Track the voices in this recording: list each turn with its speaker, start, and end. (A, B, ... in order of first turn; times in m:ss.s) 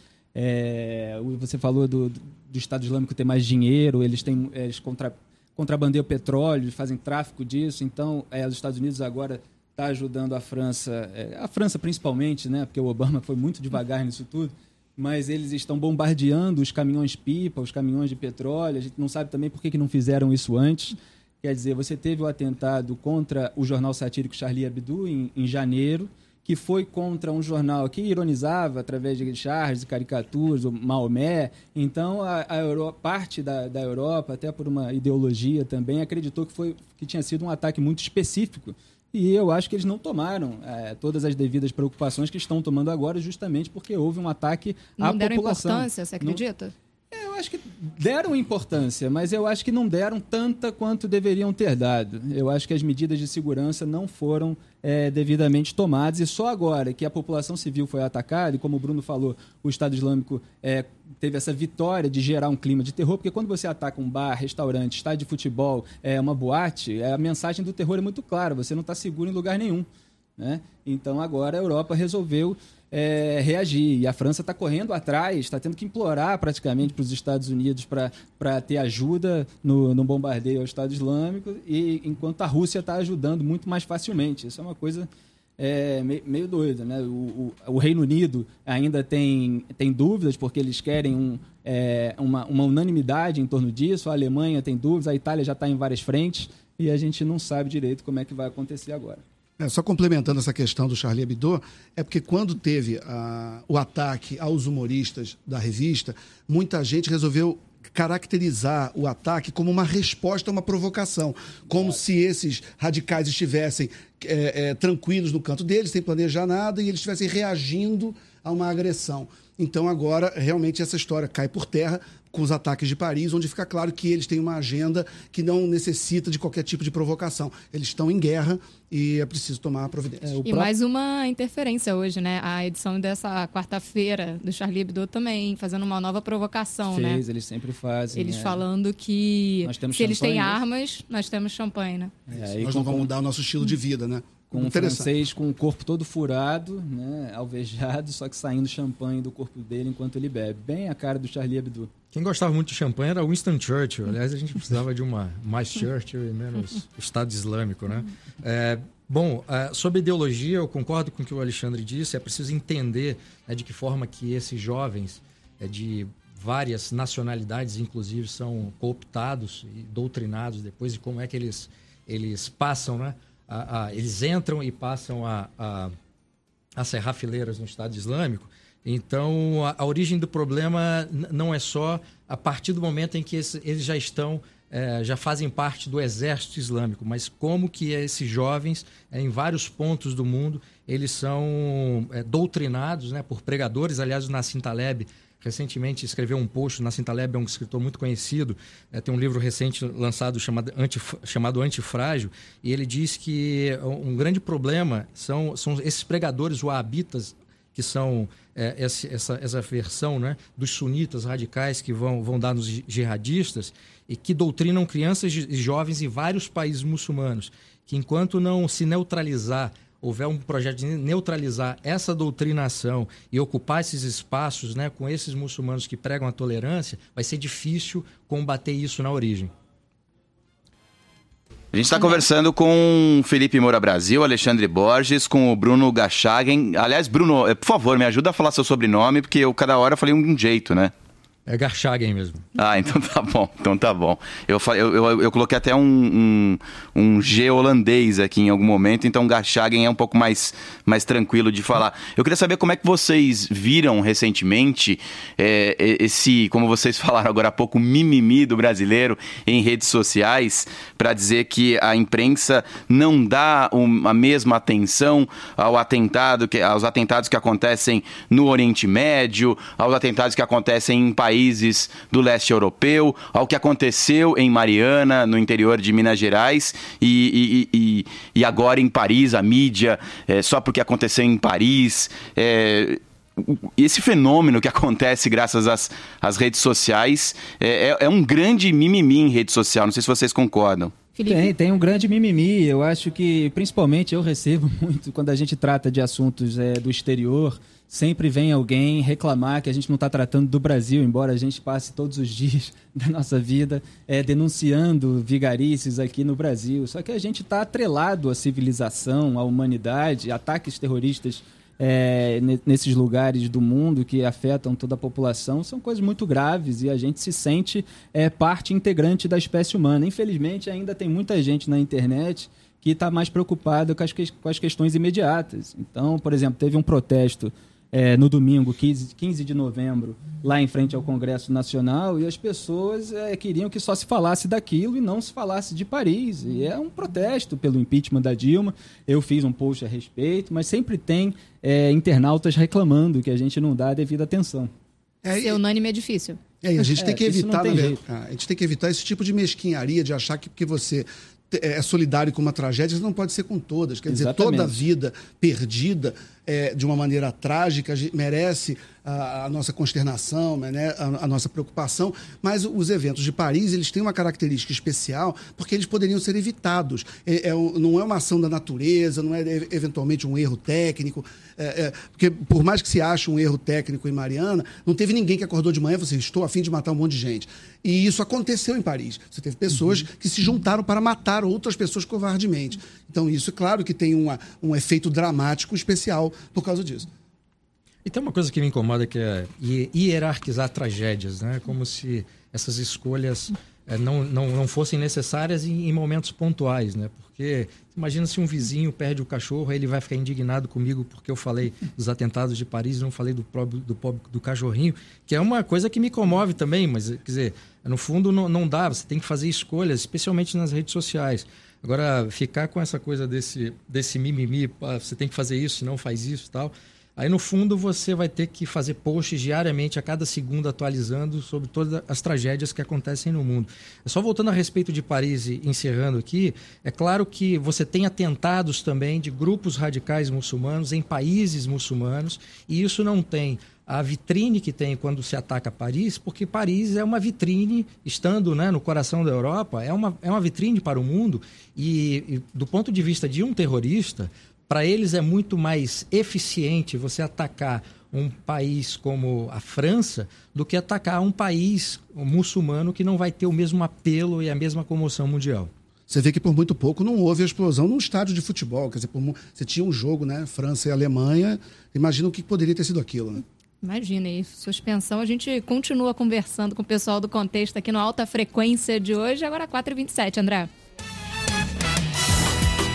0:00.4-0:46.4 A
0:45.0-0:46.7 B
0:47.1-1:39.2 A
1:39.6-2:10.6 C
2:10.4-2:17.2 B
2:16.9-2:18.6 A
2:18.1-2:22.1 B
2:19.6-2:20.6 A
2:22.3-2:23.1 A
2:22.3-2:25.1 C
2:24.5-2:31.9 A
2:32.1-2:55.9 D
2:56.8-3:49.5 D
3:51.7-4:00.9 E
4:01.5-4:02.4 D
4:02.6-4:50.9 E
4:51.2-4:51.5 B
4:51.3-5:44.7 A
5:45.2-5:45.6 C
5:45.3-5:46.4 B
5:46.6-6:27.1 C
5:46.8-5:48.0 A
5:54.1-5:54.8 A
6:28.0-7:35.7 D
7:36.1-7:43.4 C
7:43.8-7:50.7 B